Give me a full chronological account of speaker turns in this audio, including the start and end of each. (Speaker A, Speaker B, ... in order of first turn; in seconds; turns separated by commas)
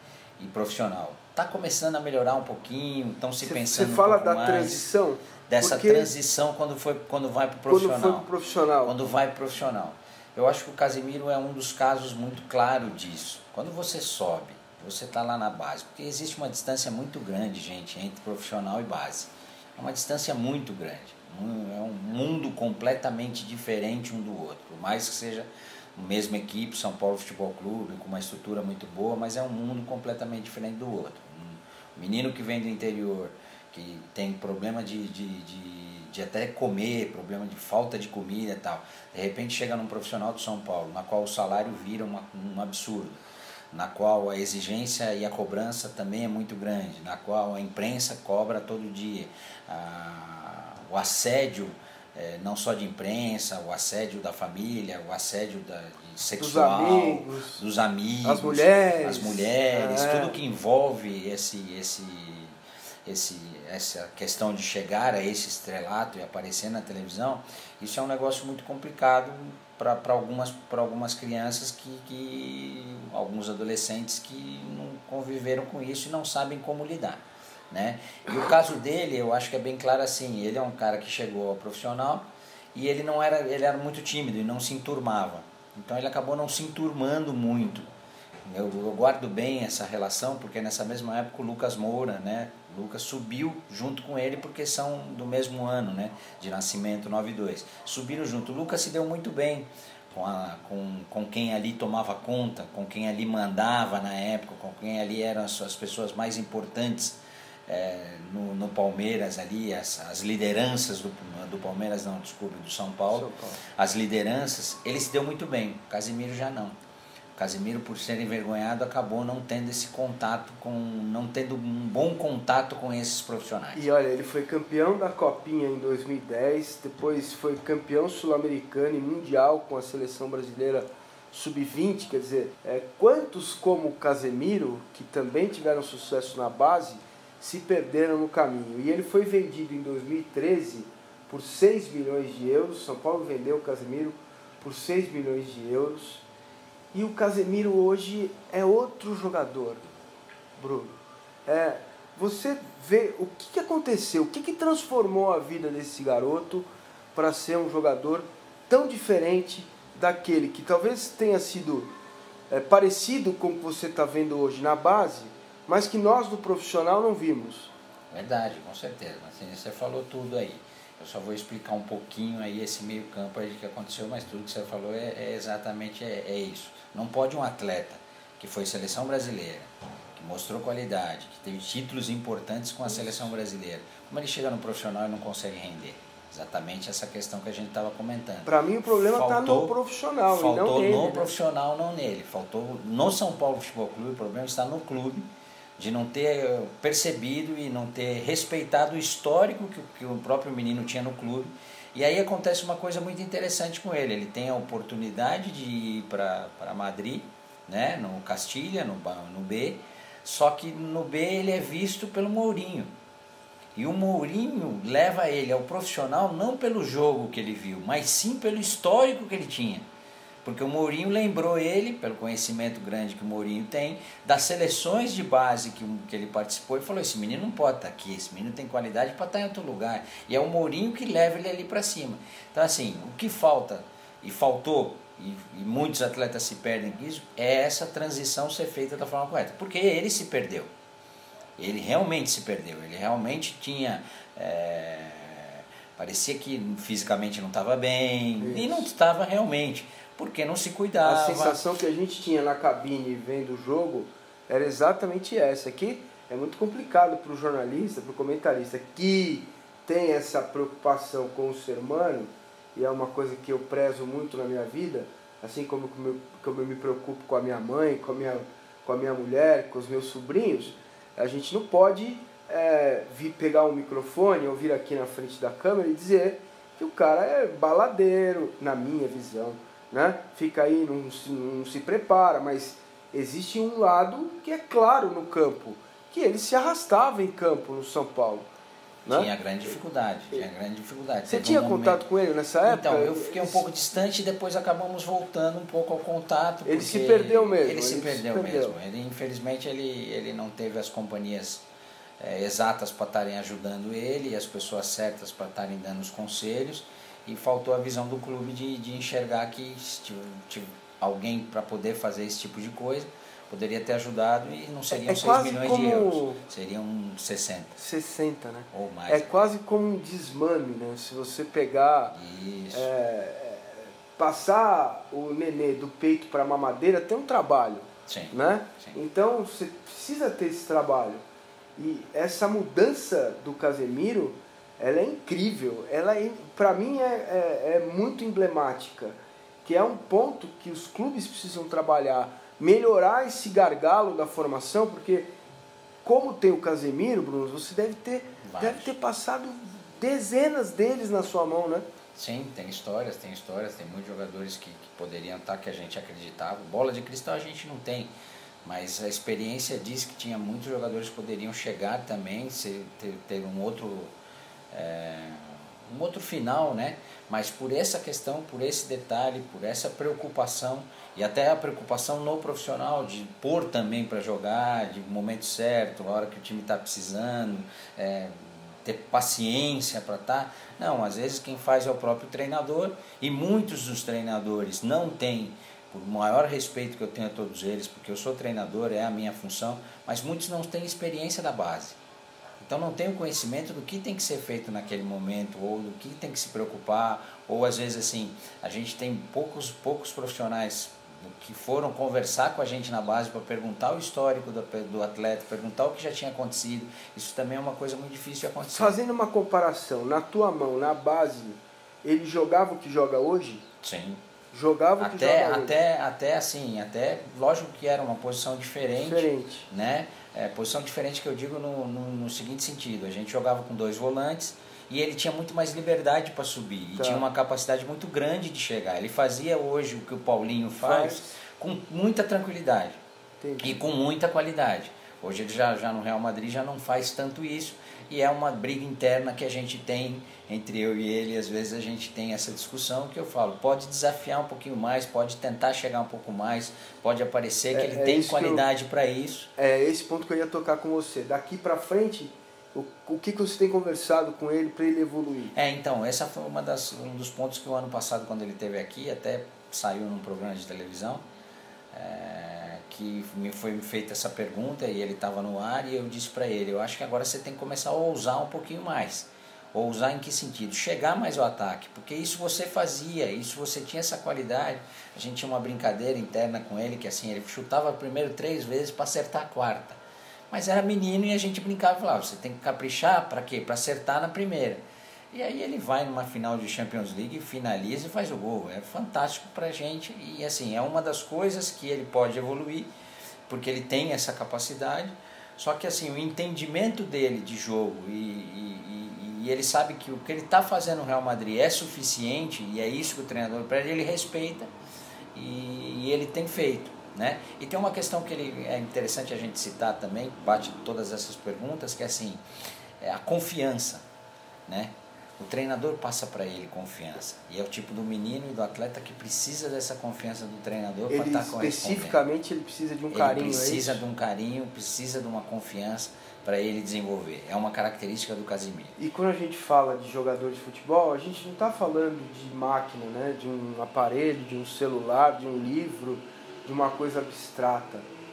Speaker A: 0.4-4.9, Speaker B: 3.4-6.1, Speaker A: 5.5-8.3, Speaker B: 7.7-8.9, Speaker A: 8.8-43.2, Speaker A: 43.7-87.8, Speaker B: 56.4-57.6, Speaker B: 58.2-60.4, Speaker A: 88.5-116.7, Speaker B: 113.1-113.6, Speaker A: 117.3-123.9, Speaker B: 123.7-146.2, Speaker B: 146.9-149.8, Speaker B: 150.6-161.9, Speaker B: 162.5-167.7, Speaker A: 168.1-189.8, Speaker B: 182.9-183.2, Speaker B: 188.4-191.3, Speaker A: 190.3-212.9, Speaker A: 213.7-219.8, Speaker A: 220.4-240.7, Speaker A: 241.6-251.6, Speaker B: 248.4-248.9, Speaker B: 251.0-288.5, Speaker A: 289.1-292.0, Speaker B: 291.2-293.6, Speaker A: 292.6-301.6, Speaker B: 296.6-298.8, Speaker A: 302.2-317.7, Speaker B: 314.9-316.4, Speaker B: 317.8-322.1, Speaker A: 318.7-319.4, Speaker A: 322.1-322.9, Speaker B: 322.7-331.2, Speaker A: 328.1-329.0, Speaker B: 331.8-345.3, Speaker B: 346.0-351.9, Speaker A: 348.4-348.9, Speaker A: 352.1-358.1, Speaker A: 358.6-364.1, Speaker A: 364.7-392.0, Speaker A: 392.6-409.0, Speaker B: 408.7-413.6, Speaker A: 413.8-414.2, Speaker B: 414.5-415.8, Speaker A: 415.0-433.0, Speaker B: 419.0-419.7, Speaker B: 426.9-427.2, Speaker B: 430.8-431.3, Speaker B: 433.4-433.8, Speaker A: 433.6-449.5, Speaker B: 447.7-448.7, Speaker B: 449.6-455.5, Speaker A: 455.5-461.2, Speaker A: 461.9-480.0, Speaker A: 480.5-484.8, Speaker A: 485.3-492.9, Speaker A: 493.5-504.7, Speaker A: 505.3-512.4, Speaker A: 513.0-514.0, Speaker A: 514.7-522.2, Speaker B: 521.1-524.0, Speaker A: 523.1-529.0, Speaker B: 529.0-538.1